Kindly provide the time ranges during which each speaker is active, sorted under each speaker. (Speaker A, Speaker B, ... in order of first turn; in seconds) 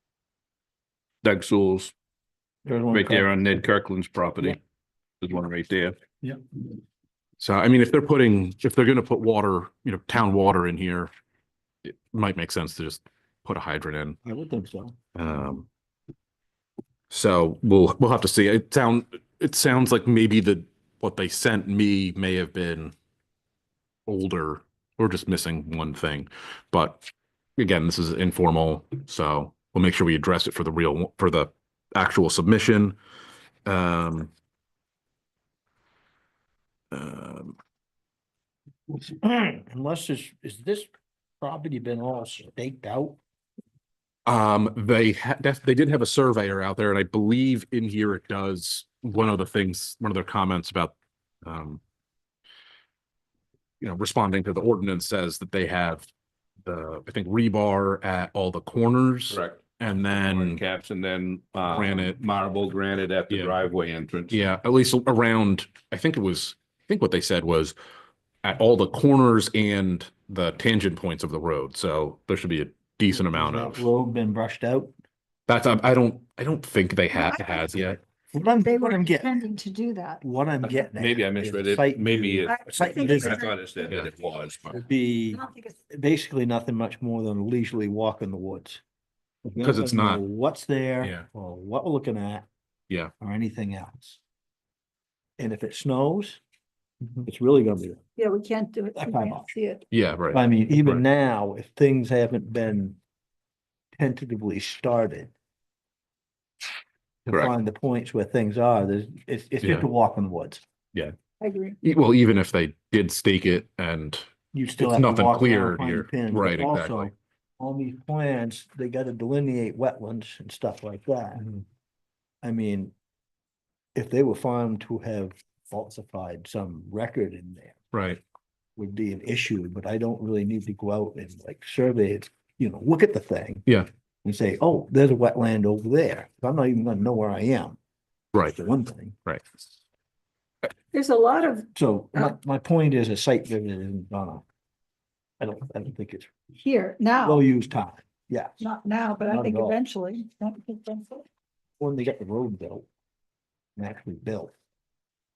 Speaker A: 1.2-1.9, 2.9-4.6, 5.2-6.0, 59.3-64.4, 80.7-84.8
Speaker B: 2.6-3.3, 14.2-15.0, 38.9-43.2, 73.3-74.9, 78.3-79.3, 80.2-83.4, 84.8-88.8, 89.4-92.5, 93.2-94.2, 95.4-96.4, 97.2-98.0, 99.0-99.5, 100.3-103.0, 104.0-105.3, 107.2-110.6, 114.5-121.5, 122.4-122.9, 123.9-127.8, 128.8-133.7, 134.2-137.8, 138.5-139.2, 141.7-144.4, 145.4-146.3, 147.2-148.6, 149.2-149.8, 151.8-152.9, 153.8-154.5
Speaker C: 7.4-11.1, 11.8-14.2, 15.1-15.7, 17.1-22.9, 24.1-33.0, 33.6-34.3, 36.9-37.5, 44.2-51.8, 53.8-56.1, 56.6-60.6, 61.7-62.2, 63.3-63.6, 64.3-67.8, 68.4-73.9, 75.5-78.0, 89.6-90.2, 91.0-91.2, 99.9-101.0, 109.6-109.9, 111.8-114.3, 114.8-117.1, 127.9-128.2
Speaker D: 77.1-77.7, 78.6-80.2, 82.5-83.9, 85.3-85.7, 98.2-99.8, 111.4-111.8, 140.9-142.3, 146.6-147.4, 148.6-151.2